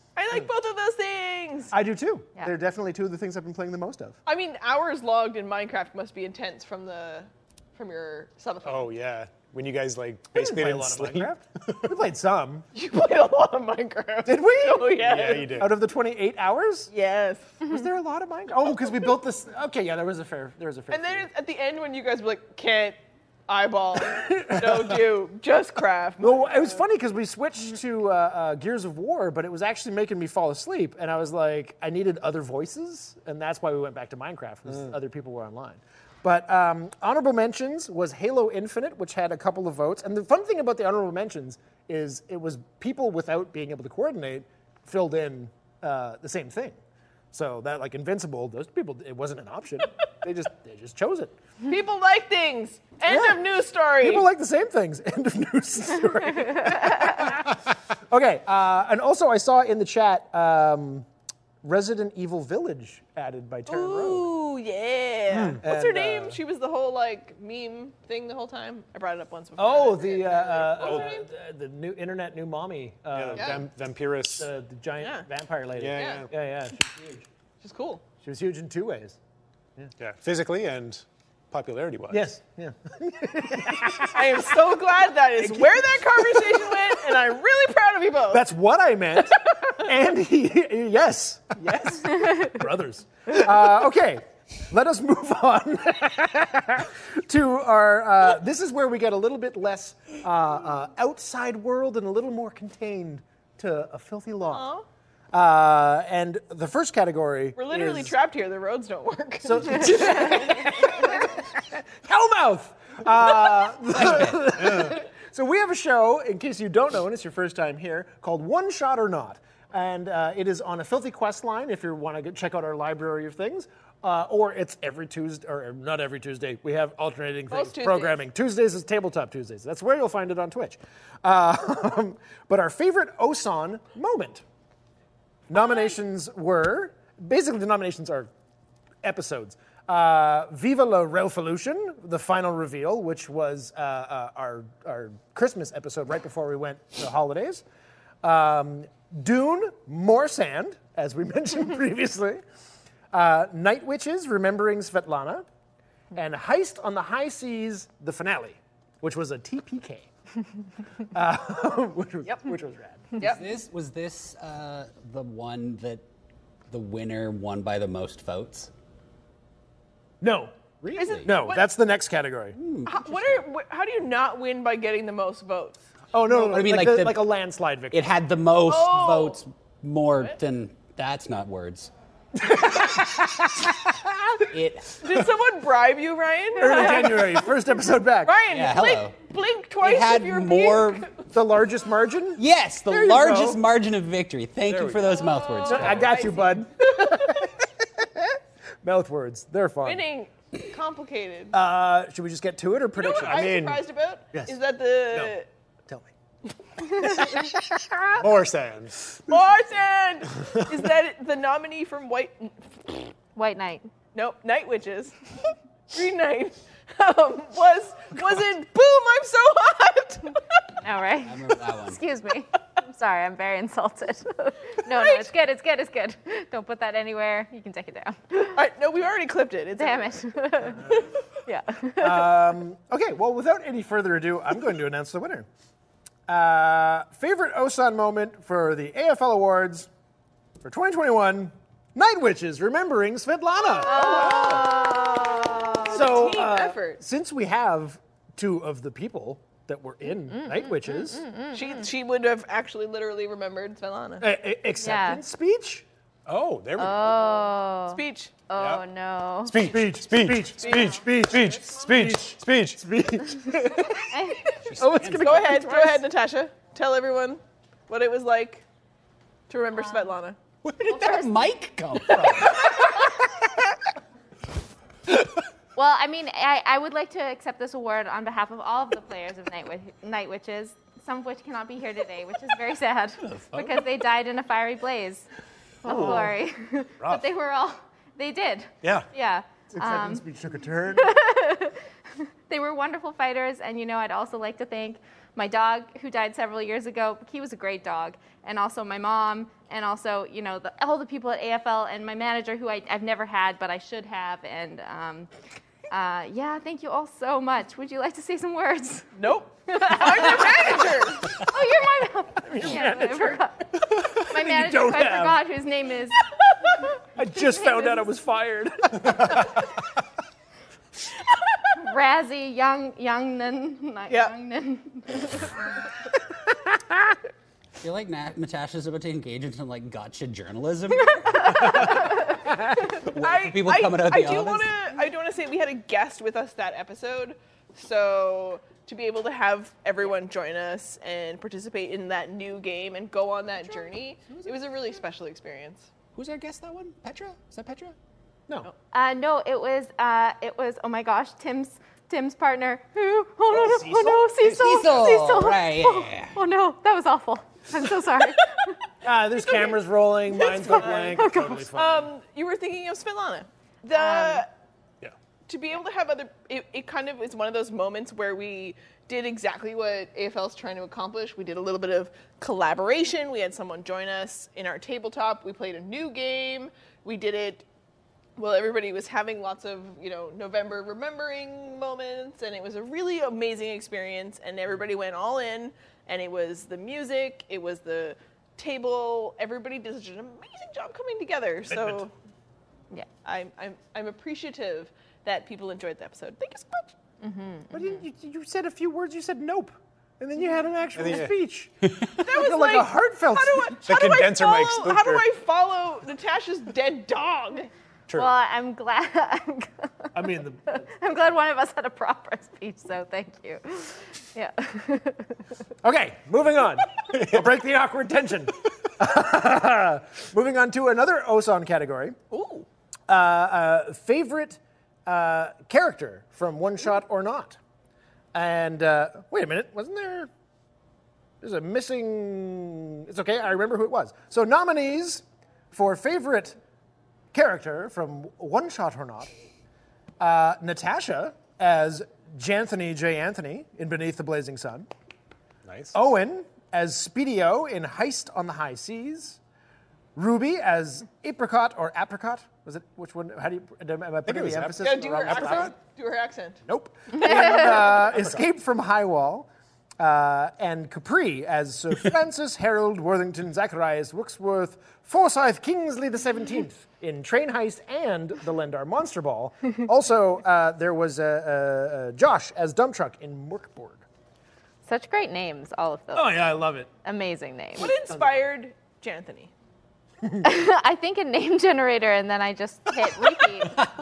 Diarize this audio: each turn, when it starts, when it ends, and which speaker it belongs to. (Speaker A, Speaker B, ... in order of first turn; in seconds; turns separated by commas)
Speaker A: 0.2-1.7, Speaker B: 1.7-4.2, Speaker A: 4.3-8.9, Speaker C: 8.7-11.9, Speaker B: 10.3-12.7, Speaker A: 12.8-15.6, Speaker B: 14.2-16.9, Speaker C: 15.0-15.8, Speaker A: 16.9-17.7, Speaker B: 17.6-21.3, Speaker A: 20.9-26.8, Speaker B: 24.1-25.0, Speaker B: 26.2-46.8, Speaker B: 47.3-51.3, Speaker A: 51.6-54.3, Speaker B: 53.1-53.4, Speaker B: 54.0-61.1, Speaker B: 61.6-64.3, Speaker A: 63.7-71.3, Speaker C: 65.3-65.6, Speaker B: 65.6-66.4, Speaker B: 69.6-73.7, Speaker C: 70.8-71.1, Speaker C: 73.1-74.5, Speaker A: 73.4-73.6, Speaker B: 74.3-77.2, Speaker A: 75.0-75.3, Speaker C: 75.8-76.3, Speaker A: 75.9-76.3, Speaker A: 77.6-78.0, Speaker B: 78.2-79.2, Speaker C: 80.0-82.3, Speaker B: 82.1-84.6, Speaker A: 84.1-88.4, Speaker B: 85.4-87.3, Speaker B: 88.3-104.7, Speaker A: 104.5-104.9, Speaker B: 105.3-108.2, Speaker A: 107.6-111.3, Speaker B: 109.5-134.4, Speaker D: 114.0-114.4, Speaker C: 114.6-115.0, Speaker A: 127.5-128.3, Speaker B: 135.5-138.3, Speaker B: 139.0-147.6, Speaker B: 148.2-152.4, Speaker B: 153.1-155.4, Speaker B: 156.2-160.1, Speaker B: 161.1-163.3, Speaker A: 162.3-162.5, Speaker A: 163.2-163.4, Speaker D: 163.2-166.0, Speaker D: 166.7-168.7, Speaker B: 170.2-170.5, Speaker D: 170.8-171.3, Speaker A: 171.0-171.6, Speaker B: 171.2-172.6, Speaker D: 172.6-173.5, Speaker A: 172.9-175.8, Speaker B: 176.1-178.1, Speaker D: 176.3-177.3, Speaker D: 177.9-181.9, Speaker A: 178.7-179.4, Speaker B: 182.4-184.5, Speaker D: 184.5-185.1, Speaker A: 185.0-187.5, Speaker B: 186.6-188.4, Speaker A: 188.2-191.3, Speaker D: 188.5-189.2, Speaker D: 189.8-191.1, Speaker B: 191.3-193.6, Speaker D: 192.4-196.2, Speaker C: 194.7-195.2, Speaker A: 195.2-197.3, Speaker B: 195.7-200.1, Speaker A: 199.8-201.6, Speaker B: 201.5-203.7, Speaker A: 203.0-205.5, Speaker C: 203.1-203.8, Speaker B: 206.8-208.1, Speaker C: 208.2-209.1, Speaker A: 209.3-213.1, Speaker E: 213.4-213.9, Speaker A: 214.1-215.3, Speaker A: 215.9-220.6, Speaker E: 220.8-228.6, Speaker D: 221.2-222.0, Speaker A: 224.9-225.3, Speaker A: 228.5-231.1, Speaker E: 229.8-230.9, Speaker E: 231.4-232.5, Speaker B: 232.0-235.5, Speaker B: 236.3-239.9, Speaker B: 240.6-244.8, Speaker A: 243.8-245.0, Speaker E: 243.8-246.2, Speaker A: 245.8-247.0, Speaker B: 245.9-251.3, Speaker E: 250.6-251.8, Speaker A: 251.5-254.3, Speaker B: 254.2-255.8, Speaker E: 254.8-255.2, Speaker C: 256.3-257.4, Speaker E: 256.8-259.7, Speaker A: 257.9-258.3, Speaker C: 258.6-258.8, Speaker C: 259.4-262.8, Speaker B: 259.7-264.1, Speaker A: 260.6-260.9, Speaker E: 264.1-264.5, Speaker D: 264.6-265.8, Speaker B: 264.8-265.8, Speaker A: 264.8-268.6, Speaker A: 269.5-270.4, Speaker E: 269.8-270.1, Speaker D: 270.6-272.8, Speaker E: 270.9-271.5, Speaker E: 275.8-285.3, Speaker B: 285.8-286.3, Speaker E: 285.8-290.2, Speaker C: 285.9-286.2, Speaker B: 289.7-291.2, Speaker E: 291.0-305.3, Speaker E: 305.9-309.1, Speaker A: 309.2-311.4, Speaker E: 309.7-316.2, Speaker B: 312.4-313.4, Speaker B: 314.0-315.4, Speaker B: 317.2-319.7, Speaker E: 317.4-318.1, Speaker E: 321.8-325.6, Speaker D: 327.8-334.7, Speaker A: 333.1-345.9, Speaker E: 348.9-358.7, Speaker B: 353.5-354.4, Speaker D: 354.4-356.4, Speaker C: 354.5-354.8, Speaker B: 359.0-362.1, Speaker A: 360.3-364.5, Speaker E: 360.4-361.7, Speaker E: 363.9-364.4, Speaker A: 365.5-377.6, Speaker A: 378.4-392.1, Speaker A: 393.2-396.9, Speaker E: 397.2-398.0, Speaker B: 397.7-403.8, Speaker C: 400.9-401.3, Speaker A: 402.2-407.7, Speaker C: 403.9-405.2, Speaker E: 408.1-415.4, Speaker B: 410.1-410.8, Speaker B: 415.8-422.2, Speaker C: 417.1-417.5, Speaker A: 422.3-422.7, Speaker B: 423.1-427.6, Speaker B: 428.3-430.3, Speaker B: 431.4-436.6, Speaker B: 437.3-439.3, Speaker B: 440.2-444.9, Speaker C: 445.7-445.9, Speaker B: 445.9-449.4, Speaker B: 450.1-455.7, Speaker C: 454.2-455.7, Speaker A: 454.8-456.6, Speaker B: 456.6-459.5, Speaker B: 460.0-474.0, Speaker E: 474.9-476.5, Speaker B: 476.1-476.9, Speaker E: 477.0-477.9, Speaker A: 477.8-479.5, Speaker E: 480.4-483.8